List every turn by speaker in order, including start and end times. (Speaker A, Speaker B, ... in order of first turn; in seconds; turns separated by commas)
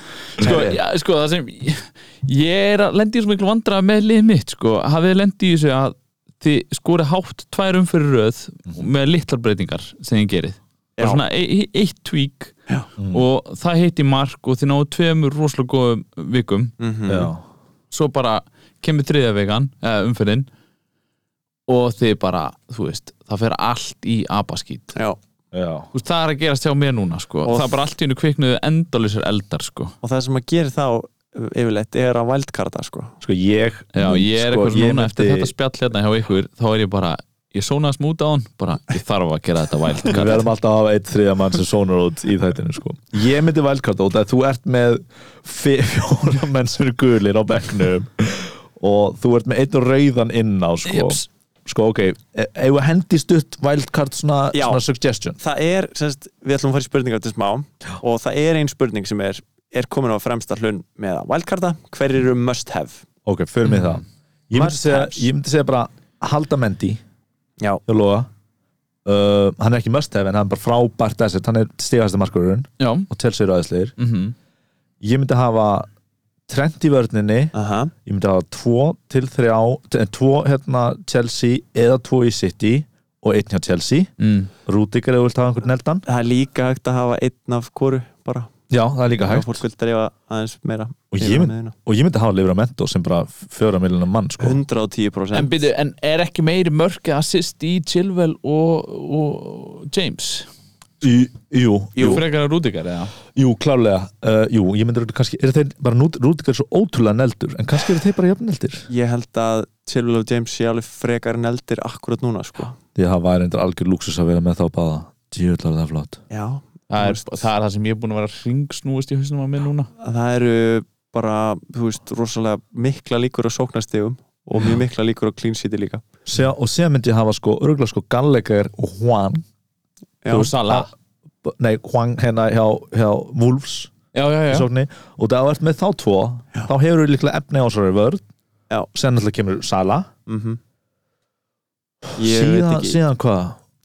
Speaker A: 0.4-12.6, Speaker B: 0.4-0.8, Speaker C: 0.4-0.8, Speaker B: 13.0-13.2, Speaker A: 13.1-16.7, Speaker C: 16.8-17.3, Speaker B: 17.1-17.4, Speaker A: 17.9-20.5, Speaker A: 21.7-25.0, Speaker B: 25.5-25.9, Speaker A: 25.9-29.9, Speaker C: 27.4-27.8, Speaker C: 30.0-33.1, Speaker B: 33.2-35.5, Speaker A: 34.0-40.5, Speaker B: 40.0-55.4, Speaker A: 50.9-51.2, Speaker C: 54.5-54.8, Speaker C: 55.4-63.0, Speaker B: 63.2-67.0, Speaker C: 64.5-65.3, Speaker B: 67.9-68.3, Speaker B: 69.0-74.0, Speaker A: 72.8-73.1, Speaker A: 74.0-74.3, Speaker B: 75.0-75.9, Speaker B: 76.5-77.5, Speaker C: 77.5-77.9, Speaker B: 78.0-84.1, Speaker A: 84.2-84.5, Speaker B: 84.7-86.0, Speaker C: 86.1-88.5, Speaker B: 88.7-89.6, Speaker C: 89.2-91.8, Speaker B: 91.1-94.6, Speaker C: 94.4-95.6, Speaker A: 95.3-100.5, Speaker B: 101.0-102.2, Speaker C: 102.0-102.2, Speaker A: 102.0-103.2, Speaker B: 103.3-108.9, Speaker C: 108.9-112.8, Speaker B: 113.0-116.2, Speaker C: 116.3-117.5, Speaker A: 116.9-119.9, Speaker C: 120.0-126.0, Speaker B: 126.3-129.4, Speaker C: 130.2-130.5, Speaker A: 130.3-130.9, Speaker B: 130.3-130.9, Speaker B: 131.4-133.9, Speaker A: 134.1-134.7, Speaker B: 134.5-138.2, Speaker B: 138.9-140.1, Speaker C: 140.3-140.6, Speaker B: 142.2-143.6, Speaker C: 142.2-143.0